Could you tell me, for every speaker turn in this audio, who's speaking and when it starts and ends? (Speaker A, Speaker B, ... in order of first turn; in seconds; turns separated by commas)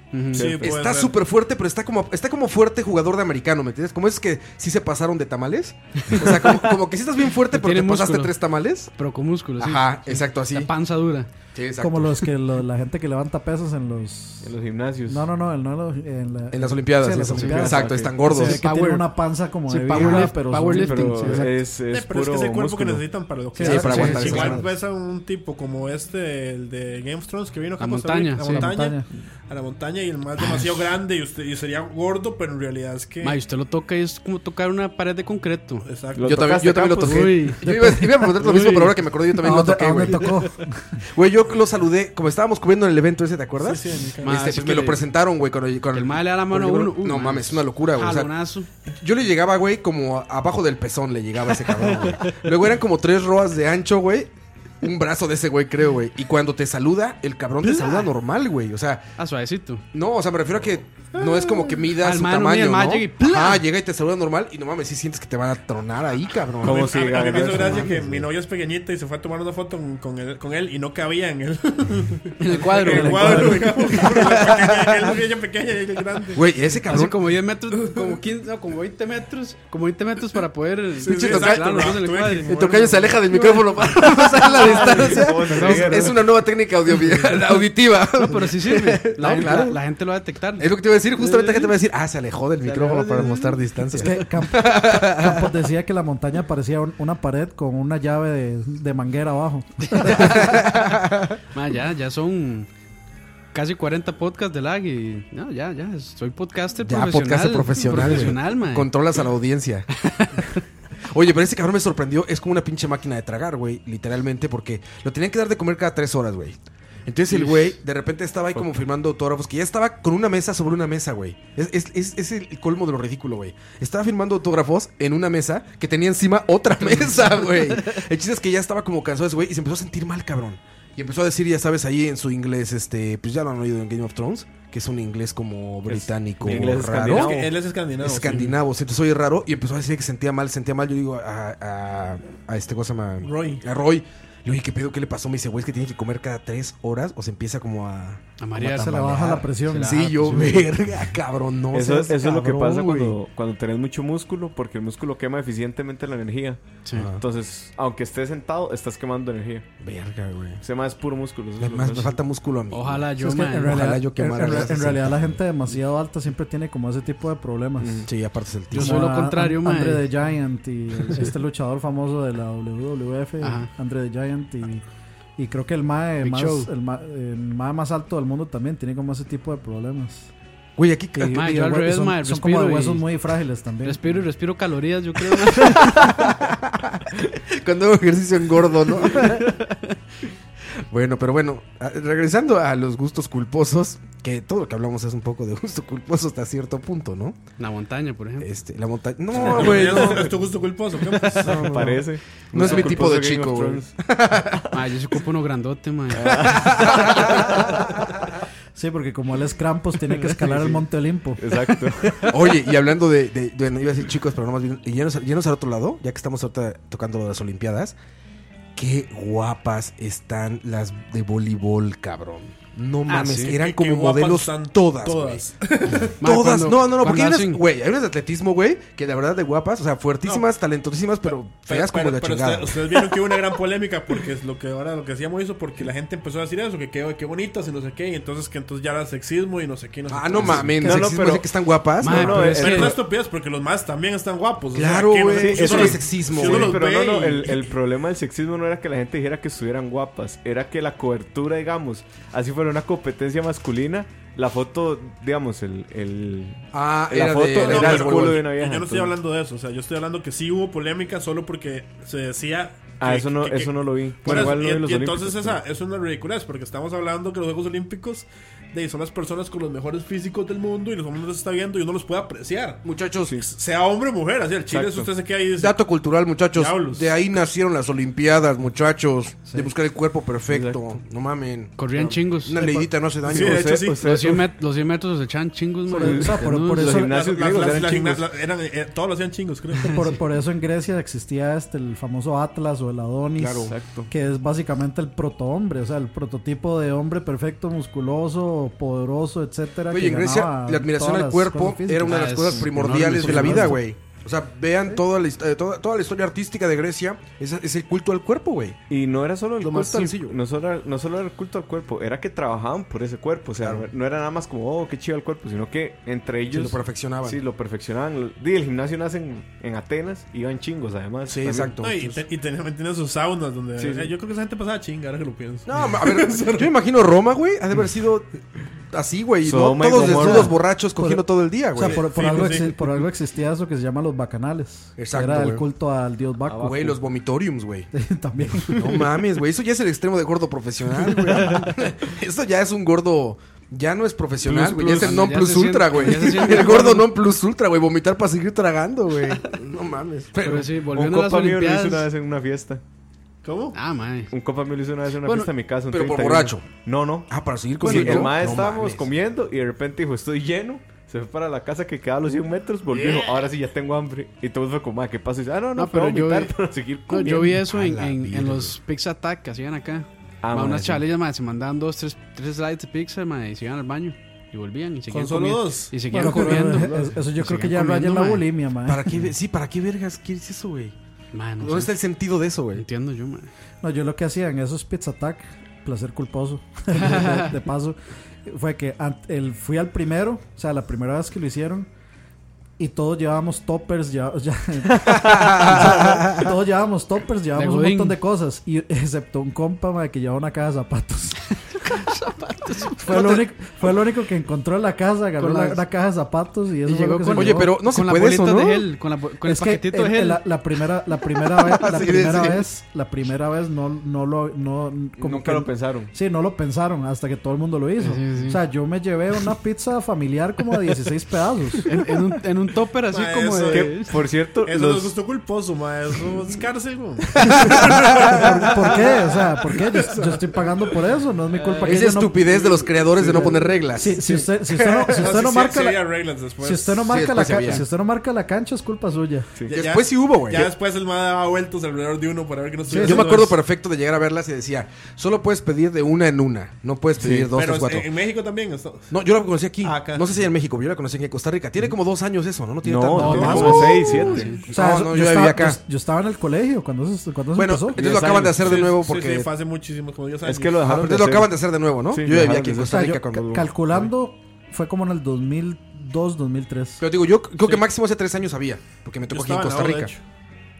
Speaker A: 0.1-0.6, Speaker B: 0.3-0.7, Speaker C: 0.4-1.2, Speaker D: 0.6-8.9, Speaker A: 7.5-8.4, Speaker A: 9.0-11.3, Speaker D: 9.6-10.7, Speaker D: 11.6-12.3, Speaker E: 11.8-14.5, Speaker B: 14.4-15.3, Speaker E: 15.1-21.5, Speaker D: 16.5-18.7, Speaker A: 17.3-17.7, Speaker B: 17.6-18.1, Speaker A: 18.4-19.1, Speaker A: 19.7-21.5, Speaker D: 20.0-20.3, Speaker B: 20.0-23.1, Speaker C: 21.9-33.4, Speaker E: 23.6-24.5, Speaker D: 23.6-24.7, Speaker A: 23.8-24.6, Speaker A: 27.8-28.7, Speaker E: 28.4-29.1, Speaker A: 33.2-35.9, Speaker C: 35.8-36.5, Speaker B: 36.1-37.4, Speaker D: 36.2-40.4, Speaker A: 37.0-37.7, Speaker E: 37.6-38.4, Speaker A: 38.2-39.0, Speaker E: 39.4-41.0, Speaker D: 41.1-48.3, Speaker C: 43.6-44.4, Speaker A: 44.2-45.0, Speaker A: 45.9-48.7, Speaker D: 48.9-59.0, Speaker A: 57.6-58.0, Speaker A: 59.2-59.8, Speaker D: 59.9-67.0, Speaker A: 61.9-63.6, Speaker B: 66.6-68.3, Speaker C: 66.6-76.5, Speaker A: 72.4-74.2, Speaker E: 73.0-73.6, Speaker D: 74.1-75.1, Speaker D: 76.3-77.2, Speaker A: 76.9-82.6, Speaker C: 81.0-83.2, Speaker D: 81.1-89.8, Speaker A: 84.3-86.2, Speaker B: 84.4-86.2, Speaker A: 88.2-90.7, Speaker D: 90.6-95.6, Speaker B: 91.2-91.7, Speaker B: 92.6-93.6, Speaker E: 93.9-100.3, Speaker D: 100.0-101.4, Speaker A: 101.5-102.7, Speaker A: 103.5-108.9, Speaker D: 106.8-109.9, Speaker A: 110.0-110.6, Speaker D: 111.1-137.4, Speaker B: 118.6-118.8, Speaker B: 135.9-137.6, Speaker C: 137.1-138.5, Speaker D: 138.0-152.2, Speaker C: 143.2-143.6, Speaker A: 148.4-150.7, Speaker E: 148.6-150.5, Speaker B: 151.7-159.7, Speaker E: 151.8-153.1, Speaker D: 156.9-157.2, Speaker D: 159.8-160.6, Speaker B: 160.6-162.1, Speaker D: 161.6-163.1, Speaker A: 162.7-163.8, Speaker E: 163.2-168.1, Speaker D: 163.6-165.4, Speaker B: 167.8-168.1, Speaker D: 168.1-169.1, Speaker A: 168.7-170.1, Speaker E: 168.8-174.8, Speaker A: 173.4-173.7, Speaker E: 175.4-180.3, Speaker A: 176.2-176.7, Speaker D: 180.8-181.5, Speaker E: 181.2-184.0, Speaker A: 181.3-183.1, Speaker A: 183.8-186.4, Speaker D: 185.5-189.6, Speaker A: 189.1-189.8, Speaker D: 190.8-197.4, Speaker A: 197.6-198.5, Speaker D: 198.4-200.3, Speaker B: 199.3-200.4, Speaker C: 199.4-201.8, Speaker D: 201.2-204.7, Speaker B: 201.4-203.9, Speaker A: 202.6-203.0, Speaker A: 204.7-207.2, Speaker B: 206.1-207.9, Speaker D: 206.4-208.2, Speaker E: 208.8-211.7, Speaker B: 210.3-210.8, Speaker B: 211.4-212.3, Speaker D: 212.3-218.0, Speaker D: 218.8-225.4, Speaker A: 223.1-223.5, Speaker C: 223.3-226.2, Speaker A: 226.2-227.6, Speaker D: 226.2-233.1, Speaker C: 231.7-240.9, Speaker D: 240.1-242.6, Speaker B: 240.5-243.0, Speaker A: 242.0-243.0, Speaker C: 242.4-247.7, Speaker D: 244.7-246.8, Speaker B: 245.4-259.1, Speaker D: 256.7-258.5, Speaker C: 257.5-272.8, Speaker B: 263.0-265.6, Speaker D: 264.3-264.6, Speaker D: 272.8-273.3, Speaker C: 273.4-275.8, Speaker B: 274.7-275.1, Speaker D: 275.6-281.8, Speaker C: 276.5-277.1, Speaker B: 280.5-280.8, Speaker A: 281.8-282.6, Speaker D: 282.4-283.8, Speaker E: 282.6-282.9, Speaker C: 283.2-284.1, Speaker B: 283.3-284.5, Speaker A: 283.9-287.0, Speaker E: 285.9-287.1, Speaker B: 285.9-288.3, Speaker C: 287.1-290.0, Speaker E: 289.8-302.2, Speaker D: 293.4-293.8, Speaker B: 293.7-294.1, Speaker D: 299.9-308.8, Speaker A: 302.0-303.7, Speaker B: 303.3-303.7, Speaker E: 303.3-303.8, Speaker B: 308.9-321.8, Speaker D: 309.6-310.4, Speaker D: 313.6-313.9, Speaker D: 316.5-317.4, Speaker D: 321.3-322.2, Speaker C: 321.8-326.7, Speaker B: 323.8-324.1, Speaker D: 325.7-328.3, Speaker D: 328.9-332.0, Speaker B: 329.4-330.6, Speaker E: 329.9-336.9, Speaker C: 331.8-332.8, Speaker D: 335.0-335.7, Speaker B: 336.5-336.9, Speaker D: 336.6-337.9, Speaker E: 337.9-339.0, Speaker D: 338.7-350.7, Speaker A: 344.5-347.1, Speaker B: 344.5-345.3, Speaker A: 350.4-352.1, Speaker B: 350.9-352.8, Speaker C: 353.4-353.8, Speaker A: 353.7-354.3, Speaker B: 354.3-357.3, Speaker A: 355.2-355.5, Speaker D: 355.9-356.7, Speaker D: 357.3-359.1, Speaker B: 357.8-367.6, Speaker A: 357.8-358.3, Speaker A: 365.8-366.5, Speaker A: 367.1-378.5, Speaker D: 367.6-368.8, Speaker B: 370.4-371.0, Speaker C: 375.1-376.4, Speaker E: 376.1-379.0, Speaker B: 376.2-377.1, Speaker D: 378.9-380.9, Speaker A: 381.3-381.9, Speaker D: 381.6-382.9, Speaker A: 382.8-383.5, Speaker E: 383.8-391.9, Speaker A: 386.9-387.5, Speaker E: 392.8-401.4, Speaker B: 395.0-396.2, Speaker D: 395.4-396.5, Speaker A: 397.6-398.2, Speaker A: 402.0-402.9, Speaker E: 403.0-407.8, Speaker D: 403.1-403.4, Speaker A: 405.4-405.8, Speaker A: 406.9-410.4, Speaker D: 407.3-408.9, Speaker E: 409.4-421.9, Speaker D: 411.5-412.7, Speaker B: 415.2-416.1, Speaker A: 418.0-418.6, Speaker A: 421.9-424.2, Speaker C: 423.1-424.1, Speaker B: 423.7-425.2, Speaker C: 424.6-430.9, Speaker D: 427.4-428.3, Speaker E: 428.3-432.4, Speaker D: 431.8-434.4, Speaker C: 432.6-433.8, Speaker E: 433.4-436.0, Speaker B: 434.2-434.5, Speaker C: 435.0-437.2, Speaker E: 436.6-439.5, Speaker D: 437.1-437.9, Speaker B: 439.6-439.8, Speaker D: 439.7-440.7, Speaker C: 439.7-443.6, Speaker E: 442.9-443.3, Speaker D: 443.0-448.1, Speaker B: 447.2-447.5, Speaker C: 447.5-449.1, Speaker D: 449.1-455.8, Speaker C: 449.8-450.3, Speaker B: 452.8-454.6, Speaker A: 453.2-454.6, Speaker C: 453.3-454.3, Speaker E: 454.7-458.0, Speaker D: 457.6-459.5, Speaker B: 458.0-458.6, Speaker C: 458.4-461.0, Speaker B: 460.4-461.6, Speaker D: 460.8-463.7, Speaker B: 462.1-464.1, Speaker E: 462.9-467.0, Speaker D: 467.0-470.1, Speaker C: 469.3-470.2